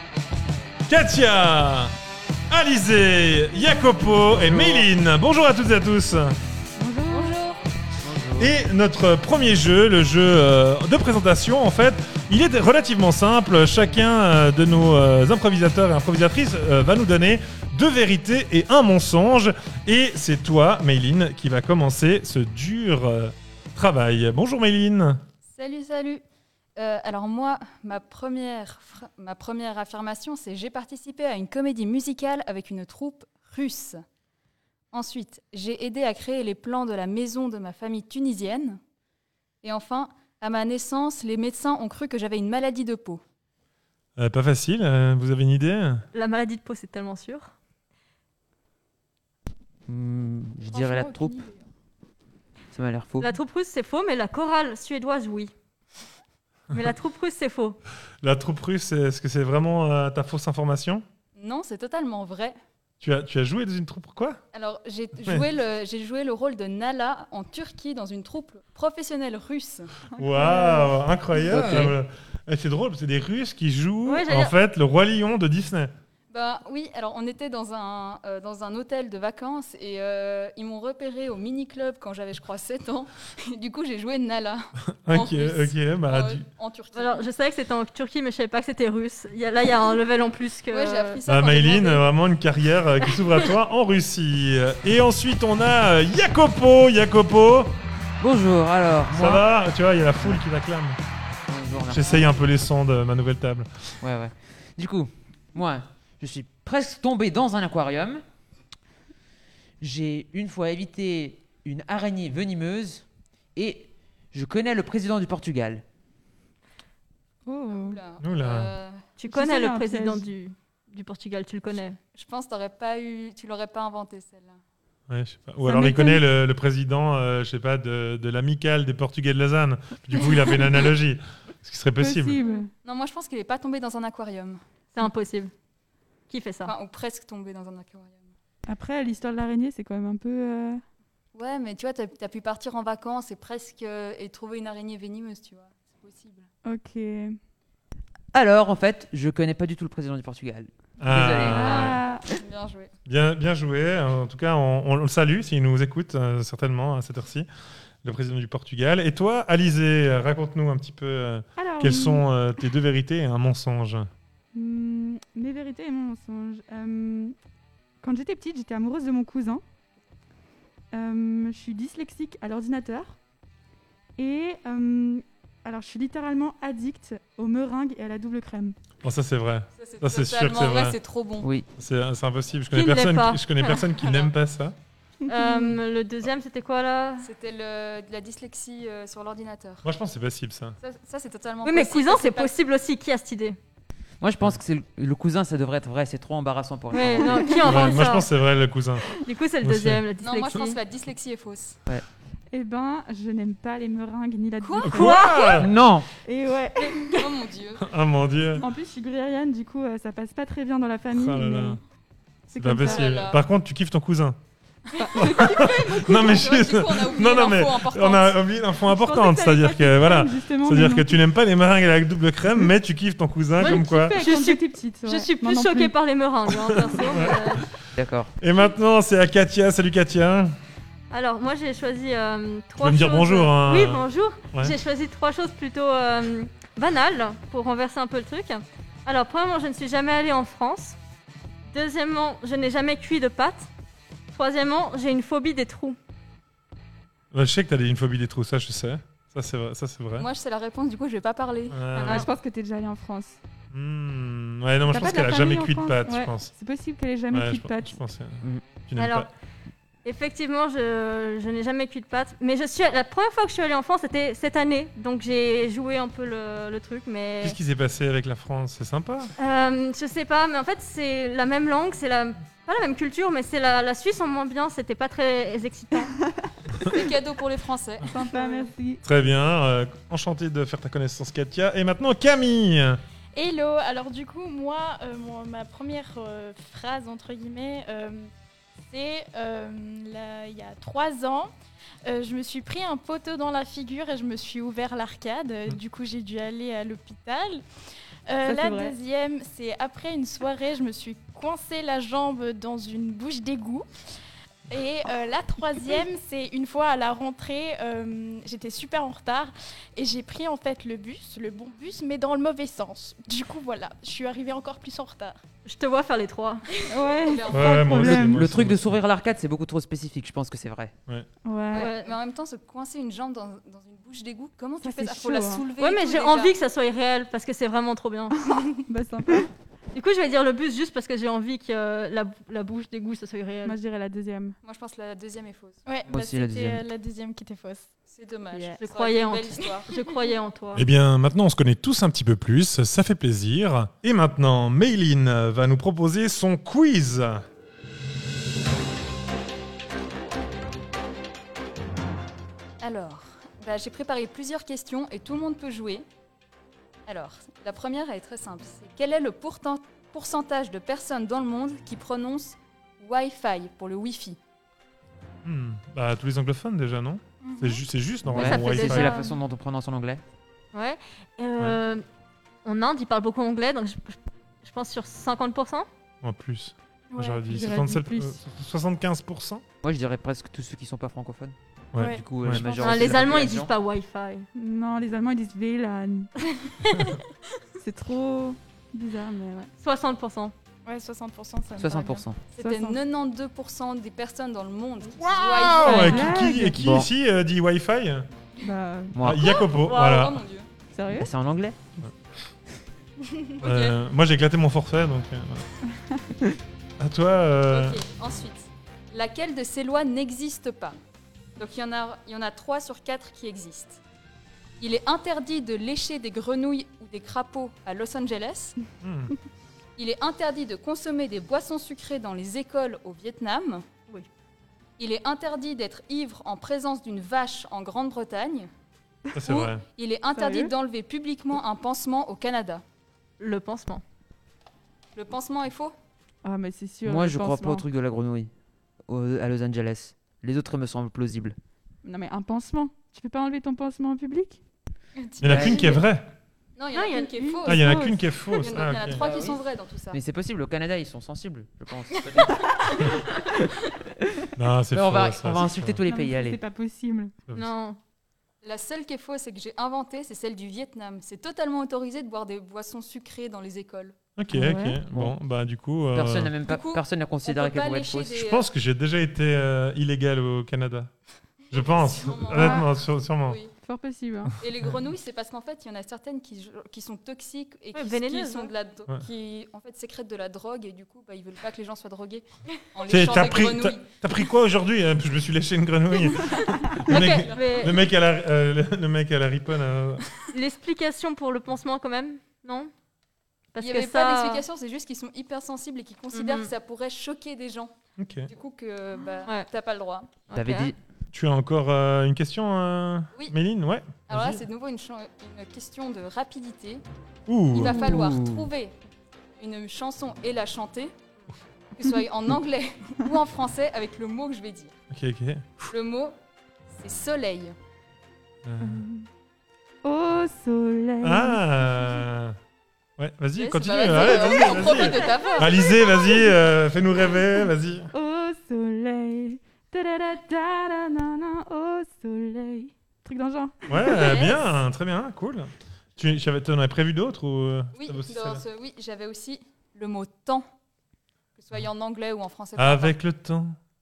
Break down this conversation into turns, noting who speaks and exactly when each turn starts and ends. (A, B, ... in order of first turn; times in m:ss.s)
0:00.9-0:01.9 A
0:02.5-0:06.4 A
0:06.8-0:07.4 B
0:07.1-0:07.6 C
0:08.0-0:08.6 D
0:08.4-0:25.2 A
0:25.5-0:26.2 C
0:26.8-0:34.0 C
0:34.9-0:38.8 C
0:39.6-0:43.2 C
0:44.2-0:46.0 A
0:46.1-0:47.5 E
0:49.9-0:51.4 D
0:50.6-0:51.7 F
0:52.7-0:53.4 D
0:53.2-0:55.5 E
0:56.7-0:57.8 E
0:58.2-1:01.0 A
1:01.4-1:02.6 C
1:03.0-1:04.4 A
1:04.5-1:10.0 C
1:10.1-1:11.0 B
1:10.2-1:15.9 A
1:11.5-1:12.0 D
1:14.0-1:14.5 E
1:16.3-1:27.3 C
1:25.0-1:26.4 A
1:26.9-1:31.2 E
1:30.7-1:32.1 C
1:31.3-1:37.8 A
1:38.2-1:39.4 D
1:39.1-1:41.0 A
1:41.5-1:42.2 D
1:41.9-1:43.9 A
1:44.0-1:48.2 D
1:49.8-1:55.8 D
1:57.5-1:58.0 B
1:57.7-1:59.0 C
1:58.2-1:58.7 A
1:59.2-2:02.0 E
1:59.3-2:00.3 B
2:02.2-2:04.6 C
2:05.1-2:12.4 A
2:05.6-2:06.2 B
2:12.0-2:12.7 B
2:12.5-2:14.6 C
2:14.9-2:15.5 E
2:16.3-2:16.7 E
2:16.6-2:18.3 C
2:18.7-2:20.8 B
2:21.4-2:26.5 C
2:26.6-2:27.4 B
2:28.3-2:31.8 D
2:31.0-2:32.0 A
2:31.5-2:32.3 B
2:31.6-2:32.9 C
2:33.1-2:37.5 A
2:38.0-2:44.1 A
2:41.6-2:42.3 B
2:44.5-2:47.4 B
2:48.0-2:49.6 B
2:50.9-2:53.2 B
2:54.2-2:58.8 B
2:59.0-3:01.0 A
2:59.8-3:01.5 C
3:01.4-3:01.7 D
3:01.8-3:04.8 A
3:02.7-3:03.8 E
3:03.9-3:04.3 C
3:05.3-3:07.3 E
3:05.3-3:05.8 B
3:07.2-3:09.9 C
3:09.8-3:10.8 A
3:10.8-3:12.5 C
3:11.6-3:13.6 E
3:14.2-3:17.8 D
3:16.9-3:18.3 E
3:17.6-3:19.1 A
3:19.1-3:20.8 E
3:19.6-3:20.0 A
3:20.2-3:21.8 C
3:22.5-3:25.2 B
3:24.6-3:25.5 C
3:24.8-3:25.7 A
3:25.0-3:25.6 E
3:25.6-3:26.1 D
3:26.2-3:27.3 B
3:26.9-3:27.9 C
3:27.8-3:28.6 A
3:28.6-3:31.8 B
3:31.1-3:31.8 A
3:32.5-3:34.4 A
3:32.5-3:33.1 B
3:32.9-3:33.4 C
3:35.0-3:36.1 B
3:35.0-3:38.4 C
3:35.2-3:44.2 A
3:38.9-3:41.2 B
3:43.6-3:45.9 B
3:43.6-3:47.7 E
3:46.5-3:47.6 A
3:48.0-3:48.3 D
3:48.4-3:50.5 A
3:51.1-4:01.0 E
3:52.8-3:54.8 A
4:01.7-4:03.7 E
4:04.3-4:06.0 E
4:07.3-4:10.3 A
4:10.2-4:11.8 C
4:11.7-4:12.3 A
4:12.0-4:12.3 E
4:12.1-4:13.4 B
4:13.7-4:16.5 A
4:14.9-4:18.0 B
4:17.3-4:19.3 A
4:19.0-4:19.3 E
4:20.0-4:27.6 E
4:27.4-4:29.3 A
4:29.4-4:36.2 E
4:36.8-4:38.2 C
4:38.1-4:39.0 B
4:39.0-4:43.0 A
4:43.4-4:48.3 F
4:48.9-4:51.5 F
4:52.1-4:57.6 F
4:58.3-5:03.9 F
5:04.7-5:15.4 F
5:15.6-5:16.7 E
5:16.9-5:18.5 B
5:17.1-5:18.2 C
5:17.5-5:18.9 A
5:18.2-5:21.0 D
5:21.4-5:21.9 B
5:21.7-5:26.6 C
5:21.8-5:22.2 E
5:24.8-5:25.7 B
5:25.8-5:28.6 E
5:28.9-5:29.5 B
5:29.9-5:33.8 E
5:33.6-5:34.6 B
5:34.6-5:35.8 C
5:35.9-5:37.9 F
5:36.1-5:36.8 D
5:38.1-5:40.0 C
5:38.8-5:40.9 E
5:40.8-5:47.4 A
5:52.8-5:56.1 C
5:57.1-6:04.4 C
6:05.4-6:09.2 A
6:07.4-6:07.8 F
6:08.3-6:10.2 D
6:08.3-6:09.3 E
6:10.7-6:12.0 E
6:12.6-6:15.9 E
6:16.2-6:19.6 A
6:17.1-6:17.4 F
6:17.5-6:18.4 B
6:19.8-6:23.7 D
6:21.9-6:22.7 A
6:22.0-6:22.3 F
6:22.6-6:24.5 E
6:24.6-6:26.4 B
6:27.8-6:29.7 B
6:29.8-6:30.5 E
6:30.9-6:32.3 F
6:31.8-6:32.4 D
6:32.5-6:36.4 C
6:32.6-6:33.0 B
6:35.2-6:38.3 A
6:35.8-6:36.8 B
6:36.8-6:37.1 D
6:38.6-6:39.2 B
6:39.1-6:39.5 D
6:39.2-6:40.4 A
6:39.4-6:40.7 C
6:40.9-6:41.3 B
6:41.1-6:41.8 D
6:43.6-6:44.0 C
6:43.6-6:45.7 A
6:46.0-6:46.4 B
6:47.0-6:48.0 A
6:47.7-6:51.0 C
6:51.6-6:54.0 C
6:54.8-6:58.8 C
6:59.0-6:59.4 A
7:00.0-7:03.8 C
7:05.0-7:08.7 C
7:09.4-7:09.8 A
7:09.4-7:12.8 C
7:10.4-7:10.7 B
7:13.4-7:14.0 E
7:15.2-7:16.0 C
7:16.4-7:17.9 B
7:17.0-7:18.5 D
7:19.1-7:21.6 D
7:22.0-7:24.6 B
7:25.2-7:25.9 C
7:25.4-7:26.3 A
7:25.4-7:26.0 D
7:26.8-7:30.2 C
7:26.9-7:27.3 E
7:27.4-7:28.2 B
7:27.6-7:29.3 A
7:29.2-7:29.6 D
7:30.1-7:33.1 D
7:34.6-7:36.0 A
7:34.9-7:36.6 D
7:36.1-7:37.3 B
7:37.5-7:38.0 E
7:38.6-7:44.2 C
7:44.4-7:46.6 A
7:44.5-7:45.0 B
7:46.1-7:48.4 D
7:46.6-7:48.7 C
7:48.4-7:51.1 A
7:51.7-7:53.6 A
7:51.7-7:53.7 C
7:52.5-7:52.9 B
7:53.8-7:54.6 B
7:54.5-7:55.0 A
7:54.6-8:04.1 C
7:57.9-7:58.7 E
8:03.1-8:10.3 A
8:07.0-8:08.0 C
8:07.1-8:08.0 E
8:10.5-8:12.9 E
8:13.7-8:14.6 E
8:13.8-8:17.9 C
8:16.3-8:16.7 E
8:18.2-8:18.5 A
8:18.5-8:20.4 C
8:20.5-8:20.9 E
8:20.5-8:21.0 D
8:21.3-8:24.6 A
8:24.3-8:27.0 C
8:27.5-8:28.3 A
8:27.7-8:29.0 C
8:27.8-8:28.7 D
8:29.6-8:31.2 C
8:32.0-8:34.9 C
8:35.1-8:35.9 A
8:35.9-8:36.4 C
8:36.9-8:37.8 C
8:38.6-8:39.1 A
8:38.8-8:39.3 B
8:40.0-8:42.1 B
8:41.2-8:42.6 A
8:43.2-8:48.1 A
8:43.6-8:45.9 C
8:48.1-8:54.3 B
8:53.9-8:58.6 A
8:54.0-8:54.8 C
8:58.0-9:00.7 C
9:01.6-9:03.1 C
9:02.8-9:03.8 A